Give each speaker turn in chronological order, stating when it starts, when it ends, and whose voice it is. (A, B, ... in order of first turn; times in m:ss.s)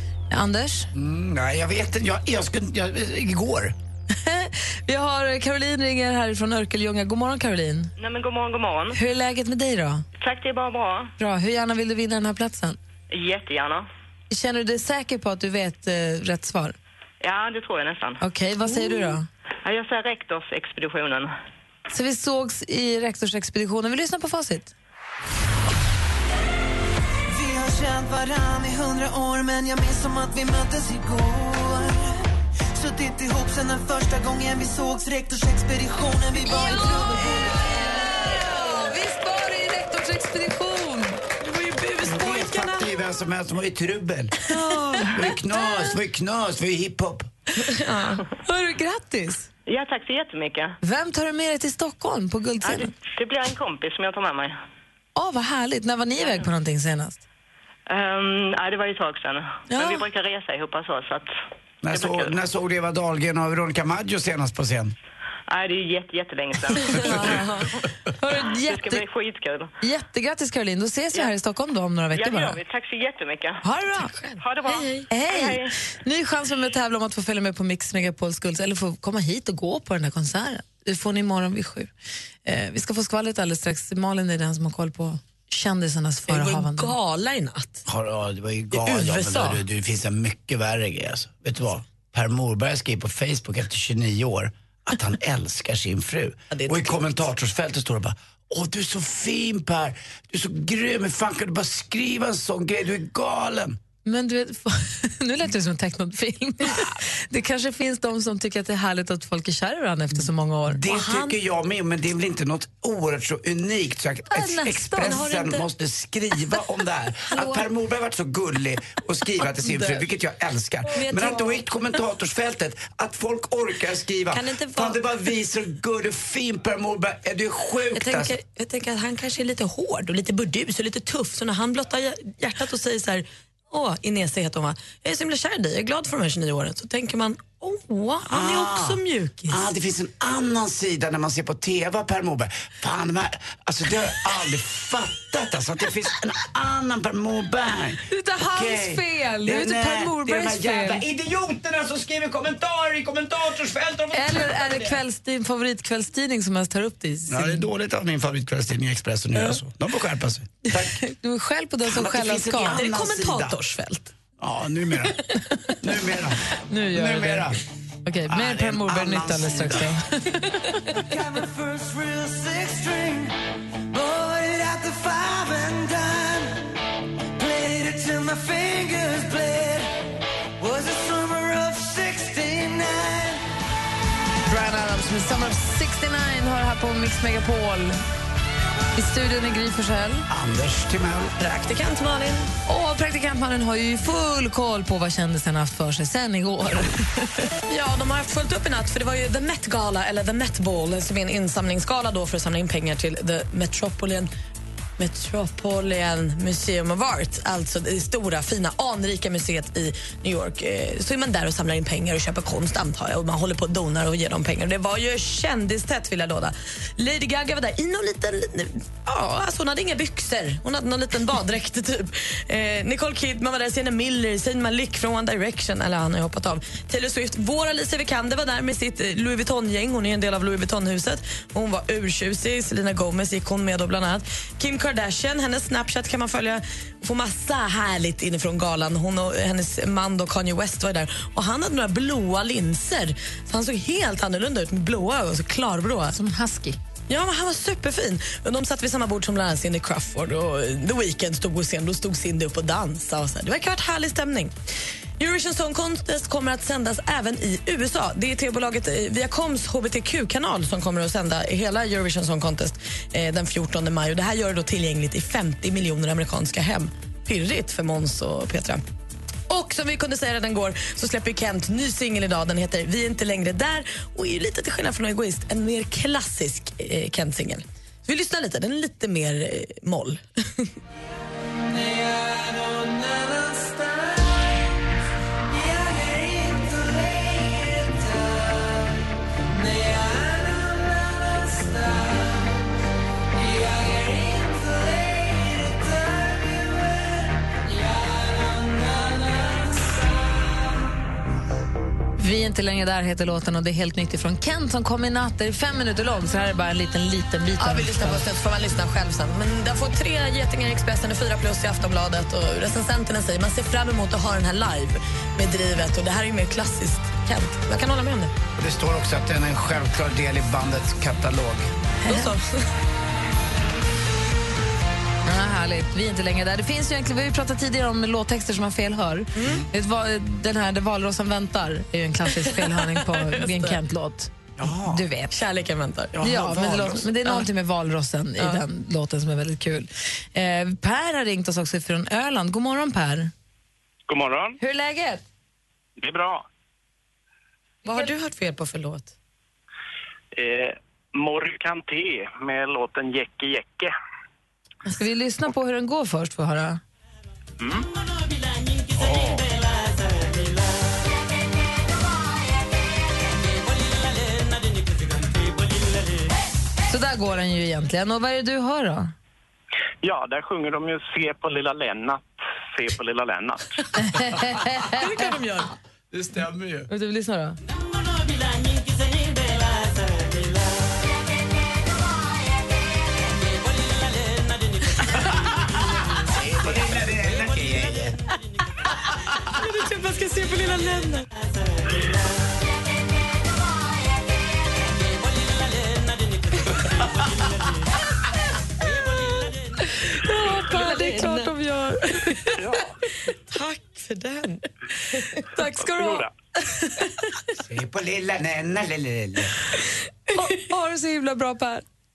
0:00.3-0:00.9 A
0:00.9-0:03.7 B
0:04.2-0:07.9 A
0:08.0-0:09.0 C
0:08.9-0:10.0 A
0:10.2-0:11.1 C
0:11.2-0:12.8 A
0:13.1-0:13.9 C
0:14.3-0:16.8 A
0:17.2-0:18.2 C
0:18.2-0:19.3 A
0:19.6-0:21.3 C
0:21.9-0:24.7 A
0:27.3-0:32.2 D
0:32.7-0:37.5 D
0:36.5-0:37.2 A
0:37.9-0:41.2 A
0:41.4-0:42.9 E
0:42.0-0:44.4 B
0:44.5-0:45.4 E
0:45.1-0:47.3 B
0:47.6-0:48.2 E
0:48.4-0:49.5 A
0:49.7-0:50.8 C
0:50.8-0:52.9 A
0:52.6-0:54.6 C
0:55.2-0:57.2 A
0:57.9-1:01.3 C
0:59.7-1:00.1 A
1:01.8-1:04.9 B
1:01.9-1:02.3 C
1:05.5-1:07.4 C
1:06.8-1:07.7 E
1:08.2-1:09.0 A
1:08.5-1:09.7 C
1:09.8-1:12.6 A
1:12.1-1:13.6 C
1:13.6-1:14.2 A
1:13.9-1:15.1 E
1:14.4-1:15.7 C
1:15.1-1:21.9 A
1:22.4-1:26.9 A
1:26.3-1:27.8 E
1:27.9-1:43.8 B
1:28.7-1:29.6 E
1:36.5-1:36.9 E
1:44.0-1:50.8 A
1:50.7-2:08.4 B
1:50.9-1:51.4 E
1:54.3-1:55.7 E
1:59.6-2:00.0 E
2:00.9-2:01.6 E
2:04.3-2:05.1 E
2:08.0-2:19.6 E
2:18.3-2:34.9 B
2:28.1-2:31.0 A
2:34.1-2:37.7 A
2:37.3-2:40.9 B
2:41.0-2:42.8 A
2:41.8-2:43.6 B
2:42.5-2:44.1 E
2:44.4-2:45.2 B
2:45.8-2:46.4 B
2:46.7-2:47.5 A
2:46.9-2:47.6 B
2:48.1-2:50.6 A
2:48.3-2:49.9 B
2:51.1-2:53.4 D
2:53.9-2:56.6 D
2:57.4-3:00.0 D
3:00.6-3:03.4 D
3:04.5-3:08.0 A
3:09.0-3:10.3 A
3:10.3-3:11.6 B
3:11.4-3:12.5 E
3:12.7-3:17.3 A
3:17.7-3:24.3 E
3:25.0-4:06.2 E
4:06.1-4:06.8 A
4:07.1-4:14.6 E
4:15.2-4:28.8 E
4:29.5-4:40.7 E
4:41.7-4:44.3 D
4:45.5-4:48.7 D
4:49.6-4:52.4 D
4:53.4-4:57.1 D
4:57.9-4:59.8 D
5:02.2-5:08.2 A
5:07.6-5:18.3 E
5:18.6-5:21.7 B
5:22.0-5:22.7 E
5:25.3-5:35.4 A
5:29.4-5:29.7 E
5:32.4-5:33.8 E
5:34.6-5:35.1 B
5:35.3-5:36.2 E
5:36.1-5:37.1 B
5:36.2-5:43.3 A
5:37.2-5:37.5 E
5:44.1-5:44.6 F
5:44.6-5:45.2 A
5:46.0-5:46.4 F
5:47.8-5:49.1 E
5:50.4-5:53.9 F
5:54.9-5:56.8 A
6:06.9-6:09.1 A
6:10.0-6:12.2 F
6:12.8-6:13.6 F
6:14.0-6:15.3 A
6:14.9-6:15.7 E
6:16.1-6:16.9 B
6:16.9-6:17.6 A
6:26.3-6:28.2 B
6:29.6-6:31.2 E
6:40.2-6:42.3 A
6:40.3-6:46.2 E
6:45.5-6:46.2 A
6:46.0-6:46.2 F
6:46.8-6:47.2 E
6:47.7-6:49.5 B
6:50.4-6:51.8 A